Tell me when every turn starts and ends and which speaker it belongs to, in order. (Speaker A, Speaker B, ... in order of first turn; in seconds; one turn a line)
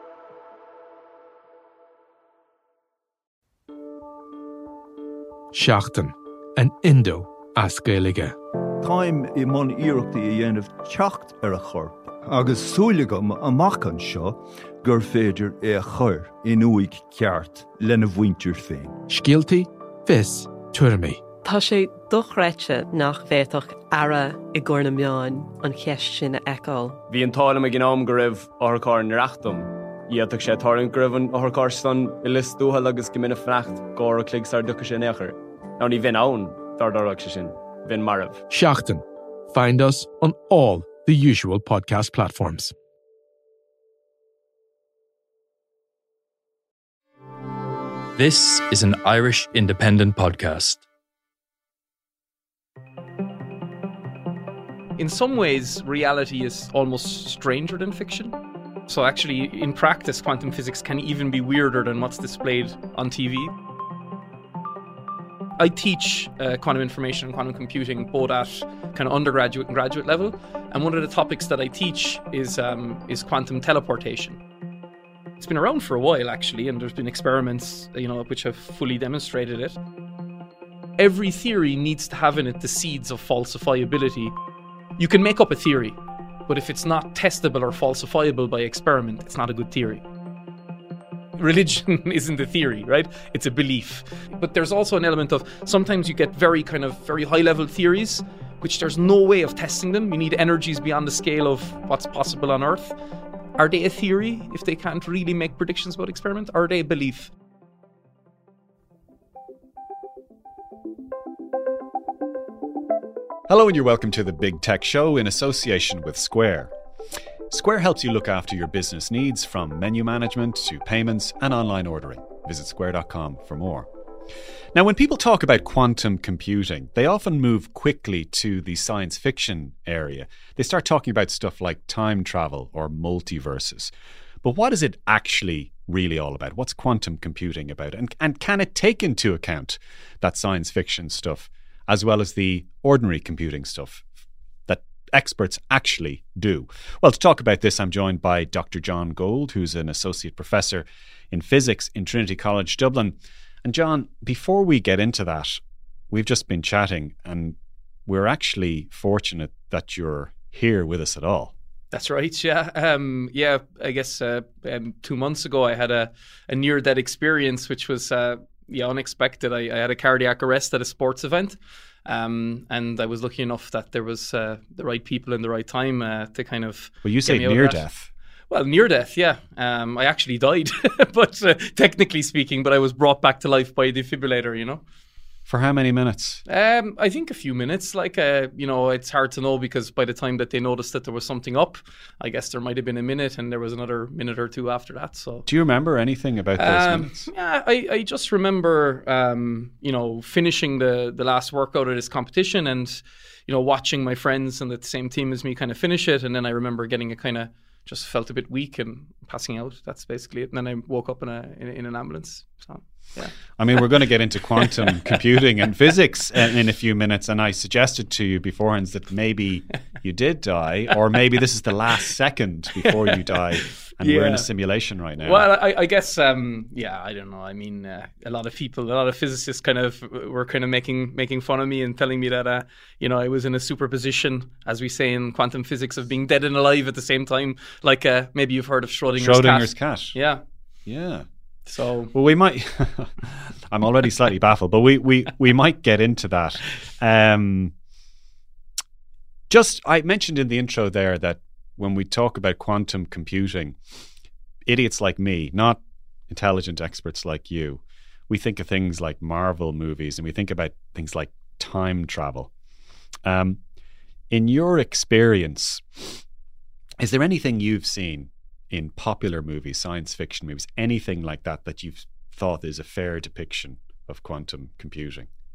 Speaker A: 5.5-8.3
Speaker B: 8.8-19.0
Speaker A: 19.1-21.2
Speaker C: 21.4-27.0
Speaker D: 27.1-38.4
Speaker A: 38.5-42.7
Speaker E: 48.2-50.8
Speaker F: 55.0-58.3
Speaker F: 58.9-63.5
Speaker F: 65.6-74.4
Speaker F: 75.4-79.8
Speaker F: 81.0-84.3
Speaker F: 85.0-90.0
Speaker F: 91.4-102.9
Speaker F: 103.5-107.3
Speaker G: 113.5-116.7
Speaker G: 117.5-123.9
Speaker G: 124.7-133.9
Speaker G: 134.4-144.1
Speaker G: 144.7-161.5
Speaker F: 161.9-177.8
Speaker G: 177.0-178.1
Speaker F: 178.5-184.8
Speaker G: 185.5-186.4
Speaker F: 186.5-195.5
Speaker G: 195.4-197.3
Speaker F: 196.6-213.3
Speaker G: 213.6-225.5
Speaker F: 214.6-215.2
Speaker F: 222.8-224.5
Speaker F: 225.2-240.4
Speaker G: 239.2-240.2
Speaker G: 240.8-241.2
Speaker F: 241.7-242.1
Speaker G: 242.1-247.7
Speaker G: 249.5-253.8
Speaker G: 254.7-262.5
Speaker G: 263.2-263.6
Speaker G: 264.3-266.2
Speaker G: 267.0-275.3